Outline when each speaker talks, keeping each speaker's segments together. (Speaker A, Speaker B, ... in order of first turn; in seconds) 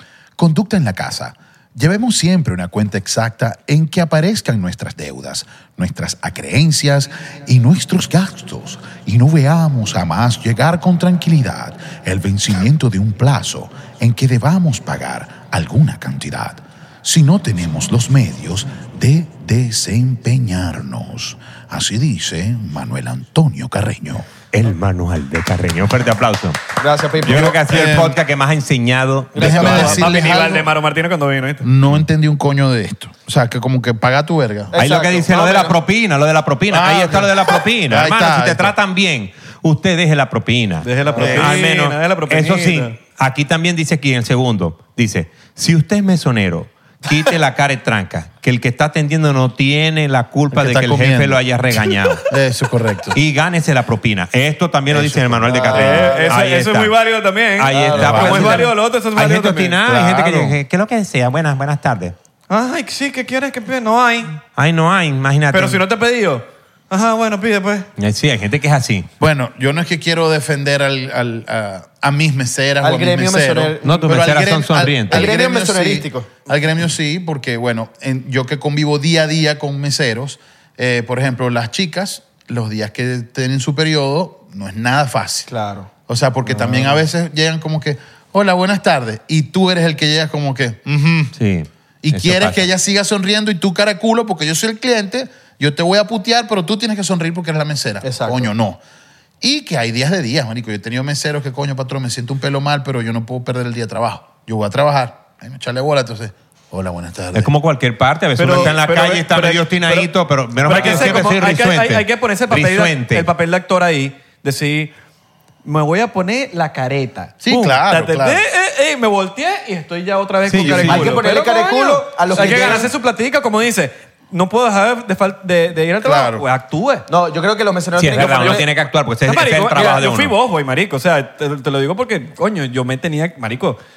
Speaker A: 0.4-24.3, 27.7-28.2, 29.4-30.7, 31.6-34.7, 36.7-38.7, 41.1-41.5, 50.5-51.4, 52.2-53.2, 54.9-55.7, 58.0-58.6, 59.8-60.6, 69.2-85.5, 86.1-91.3, 92.0-98.8, 99.4-107.5, 110.8-111.1, 117.4-118.4, 126.0-126.4
Speaker B: 24.5-26.6, 27.2-30.1, 34.7-52.2, 53.1-56.9, 57.6-62.1, 64.5-65.8, 68.0-69.1, 73.8-75.3, 91.3-92.6, 107.3-113.3, 120.5-121.2, 128.0-130.3
Speaker C: 26.8-27.6, 29.3-30.2, 34.7-35.7, 55.5-56.3, 57.7-58.6, 72.8-74.1, 75.1-76.3, 85.5-85.9, 98.0-98.5, 120.6-122.9, 127.1-128.7
Speaker D: 29.4-31.7, 40.8-42.9, 55.7-59.8, 62.5-64.4, 65.5-67.9, 108.4-110.1, 110.6-114.9, 115.6-127.1, 128.1-128.7, 129.2-133.8